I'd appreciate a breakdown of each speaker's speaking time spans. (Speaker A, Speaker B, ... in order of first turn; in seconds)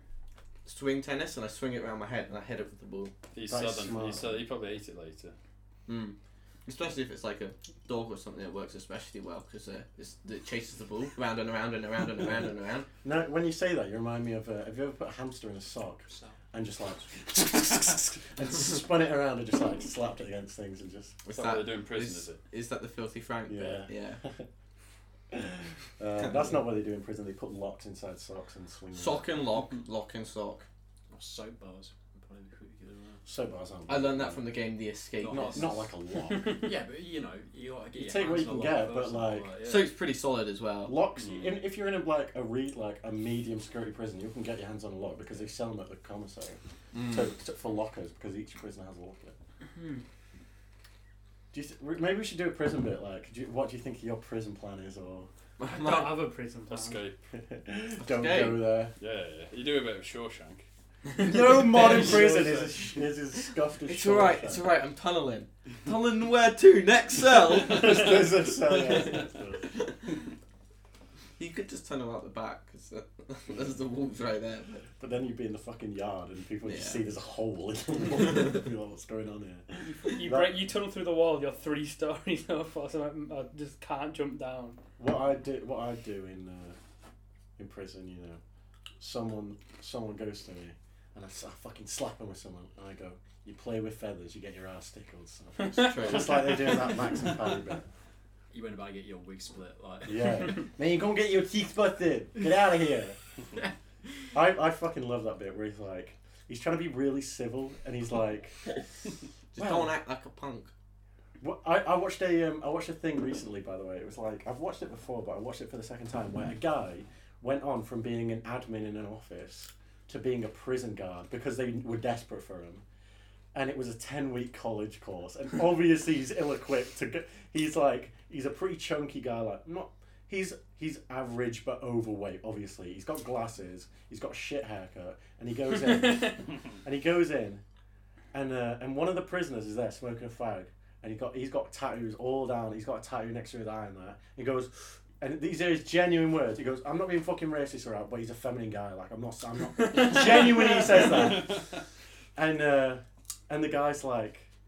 Speaker A: 0.7-3.1, 5.9-12.9, 21.2-24.2, 26.2-26.6, 28.9-30.7, 33.9-35.8, 39.6-41.0, 46.9-47.3, 55.6-56.2, 58.0-58.7, 63.9-70.0, 71.4-74.9, 76.6-77.0, 95.7-96.5, 109.5-110.7
Speaker B: 3.3-5.3, 21.3-22.4, 41.2-41.6, 56.7-57.2, 59.0-60.6, 61.8-62.7, 68.9-69.2, 151.1-151.8
Speaker C: 3.5-4.4, 13.0-21.2, 23.5-24.5, 25.3-29.2, 33.3-34.6, 35.3-36.6, 38.0-39.5, 40.9-49.4, 51.5-55.3, 57.3-58.9, 61.2-64.7, 67.6-69.6, 75.0-80.6, 85.0-86.8, 87.6-88.4, 89.0-97.9, 100.0-103.2, 104.3-108.6, 109.6-109.9, 111.4-122.8, 123.5-137.6, 138.3-151.7, 152.4-154.5
Speaker D: 16.1-16.4, 31.1-33.2, 35.2-35.8, 36.6-39.9, 98.5-100.6
Speaker E: 36.3-36.7, 49.8-50.0, 55.7-57.0, 79.8-84.8, 95.6-96.5, 135.9-136.3, 149.7-150.9